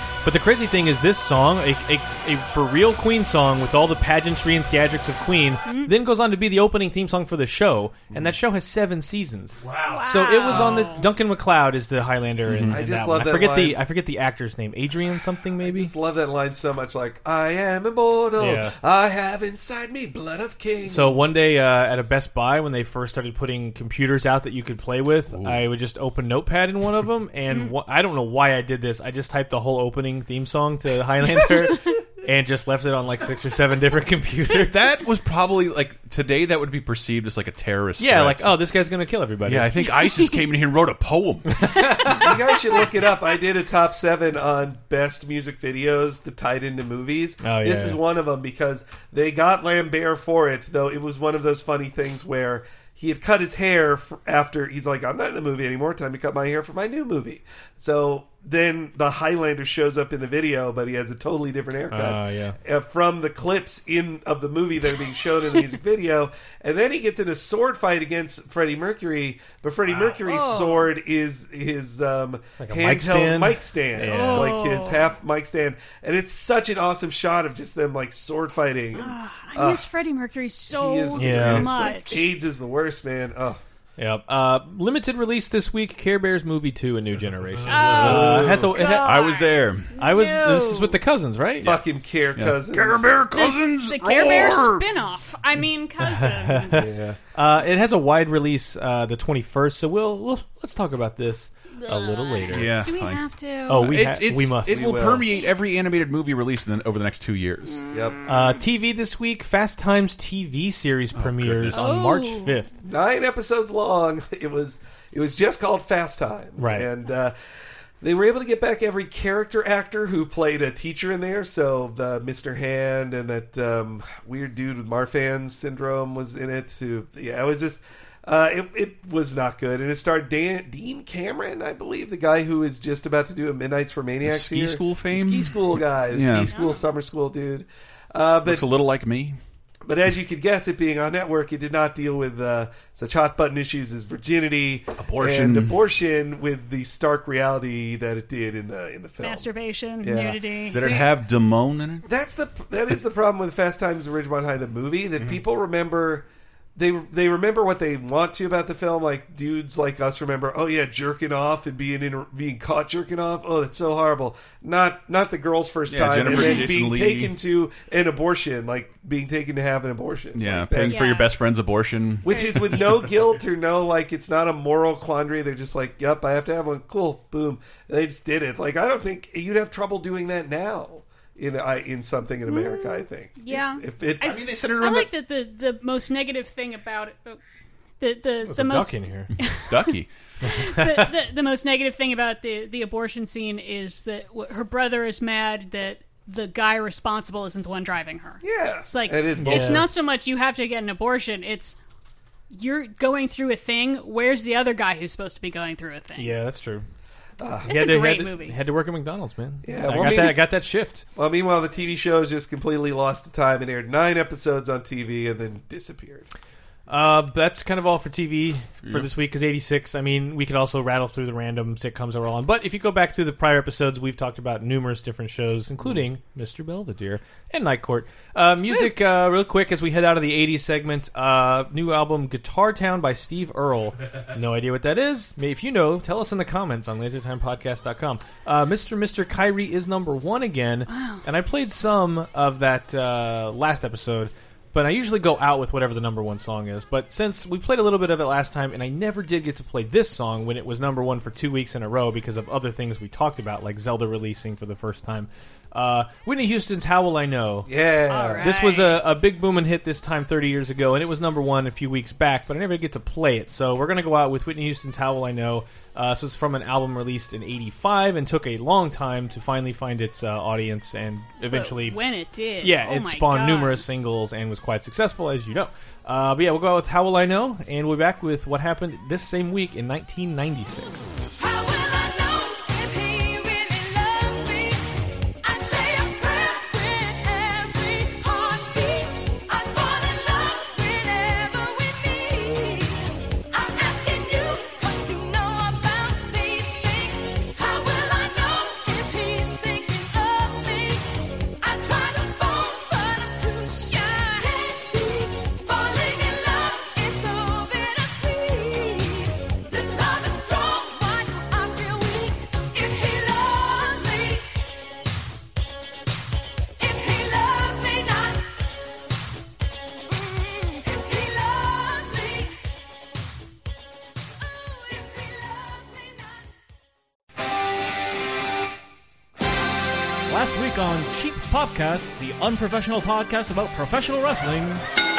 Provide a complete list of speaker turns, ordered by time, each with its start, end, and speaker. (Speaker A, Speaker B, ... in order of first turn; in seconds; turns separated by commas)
Speaker A: 0.2-15.9, Speaker B: 5.7-5.9, Speaker B: 9.9-11.1, Speaker C: 12.4-12.8, Speaker D: 12.7-13.8, Speaker D: 15.6-21.3, Speaker A: 18.4-18.8, Speaker A: 20.9-34.8, Speaker C: 25.3-25.6, Speaker C: 34.5-38.6, Speaker A: 38.0-39.7, Speaker C: 39.4-42.1, Speaker B: 39.8-40.4, Speaker A: 41.5-42.3, Speaker D: 42.0-79.9, Speaker A: 47.4-48.0, Speaker A: 61.9-62.6, Speaker B: 70.2-70.9, Speaker A: 72.6-74.6, Speaker B: 74.1-75.1, Speaker B: 79.0-82.3, Speaker D: 80.7-83.6, Speaker A: 81.2-81.8, Speaker A: 84.0-89.2, Speaker C: 87.6-89.9, Speaker B: 87.7-91.0, Speaker D: 88.0-88.7, Speaker A: 90.0-91.7, Speaker D: 91.6-93.2, Speaker C: 92.4-94.8, Speaker B: 93.3-97.0, Speaker A: 96.0-102.8, Speaker D: 96.7-97.2, Speaker B: 101.8-104.0, Speaker C: 102.5-107.8, Speaker A: 103.7-105.1, Speaker D: 104.7-105.3, Speaker D: 107.9-108.2, Speaker A: 108.3-112.7, Speaker C: 111.2-112.0, Speaker B: 111.7-112.5, Speaker D: 112.8-117.3, Speaker A: 116.6-116.9, Speaker D: 118.0-138.7, Speaker C: 134.2-136.5, Speaker B: 136.5-136.9, Speaker C: 138.4-139.4, Speaker D: 139.9-149.5, Speaker C: 145.0-145.8, Speaker B: 149.2-150.9, Speaker D: 150.0-151.1, Speaker C: 150.7-152.1, Speaker D: 152.1-171.2, Speaker C: 165.9-167.3, Speaker B: 166.3-166.7, Speaker C: 170.3-173.1, Speaker B: 170.8-171.3, Speaker D: 172.2-184.5, Speaker B: 172.3-172.8, Speaker B: 182.5-187.4, Speaker C: 184.2-185.1, Speaker B: 188.0-189.9, Speaker A: 188.4-189.3, Speaker C: 189.7-190.1, Speaker A: 190.4-190.9, Speaker B: 190.5-201.8, Speaker D: 198.4-199.9, Speaker A: 199.4-199.9, Speaker B: 202.5-206.4, Speaker A: 206.2-206.8, Speaker D: 207.4-207.8, Speaker B: 207.7-208.6, Speaker A: 207.7-211.0, Speaker D: 209.6-210.5, Speaker D: 211.2-216.3, Speaker A: 216.9-257.7, Speaker C: 218.8-219.1, Speaker B: 240.9-241.2, Speaker D: 257.7-258.5, Speaker B: 258.1-259.0, Speaker A: 258.4-272.0, Speaker B: 271.5-273.8, Speaker A: 272.6-281.1, Speaker E: 281.4-314.5, Speaker E: 316.8-318.5, Speaker E: 320.1-322.6, Speaker E: 324.6-326.4, Speaker F: 330.3-334.8